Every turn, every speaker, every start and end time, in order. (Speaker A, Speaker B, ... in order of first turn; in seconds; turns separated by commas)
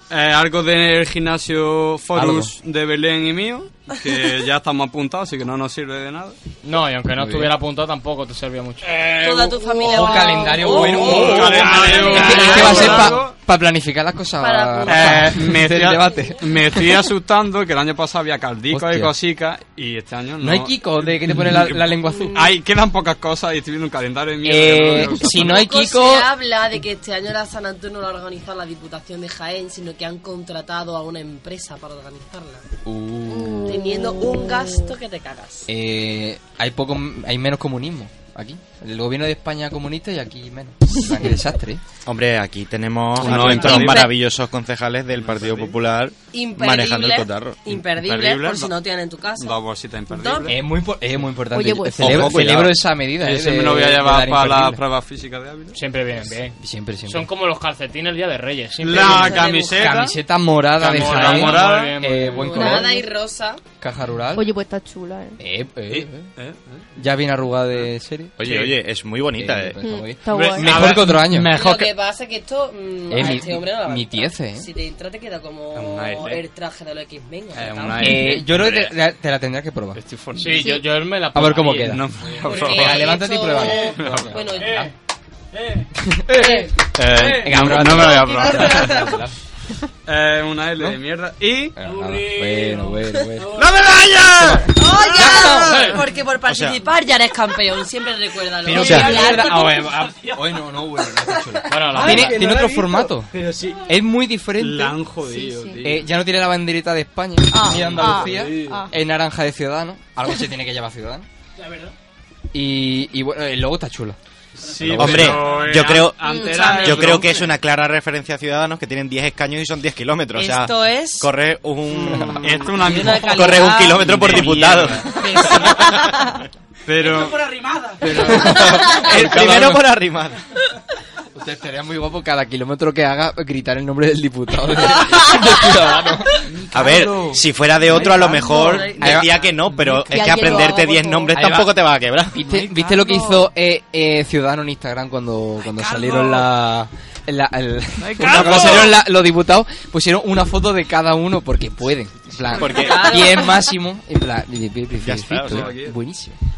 Speaker A: 0.1-6.3, Speaker B: 2.1-2.5, Speaker C: 6.6-8.9, Speaker B: 7.2-7.5, Speaker A: 8.8-13.3, Speaker D: 9.0-13.2, Speaker B: 9.8-17.1, Speaker E: 11.0-13.0, Speaker D: 14.4-15.5, Speaker A: 14.8-25.6, Speaker B: 18.7-19.1, Speaker B: 20.4-22.5, Speaker D: 22.1-22.5, Speaker B: 24.4-26.3, Speaker D: 25.3-32.6, Speaker B: 32.8-33.8, Speaker F: 33.3-34.9, Speaker D: 33.6-35.7, Speaker B: 35.7-41.8, Speaker G: 42.0-47.6, Speaker A: 43.1-44.2, Speaker D: 43.2-44.1, Speaker A: 45.1-45.8, Speaker D: 46.3-50.5, Speaker A: 47.7-48.7, Speaker A: 49.4-50.6, Speaker B: 50.5-54.8, Speaker F: 51.5-52.5, Speaker G: 52.0-52.8, Speaker A: 53.2-55.8, Speaker C: 55.7-59.4, Speaker B: 56.6-57.3, Speaker A: 58.8-60.1, Speaker D: 58.8-60.0, Speaker B: 59.7-62.9, Speaker C: 60.8-62.7, Speaker A: 60.8-62.0, Speaker F: 62.5-63.1, Speaker D: 62.5-63.6, Speaker B: 63.8-64.5, Speaker F: 64.3-65.4, Speaker B: 65.4-66.3, Speaker A: 65.9-66.9, Speaker B: 67.0-68.3, Speaker G: 68.4-69.8, Speaker A: 68.4-68.8, Speaker B: 69.4-71.5, Speaker F: 69.8-70.9, Speaker A: 70.3-71.9, Speaker C: 70.7-71.8, Speaker D: 71.5-78.3, Speaker B: 73.1-74.7, Speaker A: 75.7-76.4, Speaker A: 77.5-79.0, Speaker B: 78.0-80.0, Speaker A: 79.9-80.7, Speaker C: 80.3-82.0, Speaker F: 80.5-80.8, Speaker B: 81.3-82.1, Speaker A: 81.8-83.2, Speaker D: 82.4-84.9, Speaker B: 82.6-84.9, Speaker E: 83.5-83.9, Speaker A: 83.8-84.5, Speaker E: 84.6-84.9, Speaker E: 85.5-85.9, Speaker B: 86.0-86.7, Speaker D: 86.3-86.8, Speaker A: 86.9-89.1, Speaker B: 87.2-89.3, Speaker D: 88.5-89.1, Speaker A: 90.0-91.7, Speaker B: 91.8-93.6, Speaker E: 91.8-93.8, Speaker A: 93.6-94.6, Speaker B: 94.3-96.0, Speaker D: 94.7-99.9, Speaker A: 95.7-95.9, Speaker G: 96.4-96.8, Speaker B: 98.6-103.3, Speaker G: 98.7-99.1, Speaker E: 98.9-100.5, Speaker D: 101.3-102.0, Speaker C: 101.7-102.4, Speaker E: 102.0-103.7, Speaker A: 102.0-102.7, Speaker A: 103.3-103.8, Speaker B: 103.8-105.0, Speaker A: 104.6-106.1, Speaker F: 105.2-105.8, Speaker B: 105.8-111.2, Speaker F: 107.5-108.9, Speaker A: 107.7-108.8, Speaker E: 111.6-111.9, Speaker B: 112.5-114.2, Speaker E: 114.6-117.2, Speaker A: 114.6-117.5, Speaker B: 114.8-115.4, Speaker G: 115.0-122.6, Speaker D: 120.3-121.3, Speaker D: 122.2-126.0, Speaker A: 122.4-125.5, Speaker G: 123.3-126.3, Speaker A: 126.8-127.4, Speaker E: 127.0-128.6, Speaker B: 128.1-129.9, Speaker A: 128.1-128.4, Speaker G: 128.3-130.4, Speaker A: 129.1-129.7, Speaker B: 131.3-136.4, Speaker A: 136.5-138.9, Speaker G: 136.7-142.4, Speaker D: 138.3-139.5, Speaker B: 139.0-139.4, Speaker F: 139.9-141.3, Speaker B: 141.3-156.4, Speaker E: 145.8-146.4, Speaker A: 148.0-149.0, Speaker E: 148.2-148.9, Speaker D: 152.5-153.7, Speaker G: 152.5-153.2, Speaker G: 155.0-155.7, Speaker A: 155.4-155.9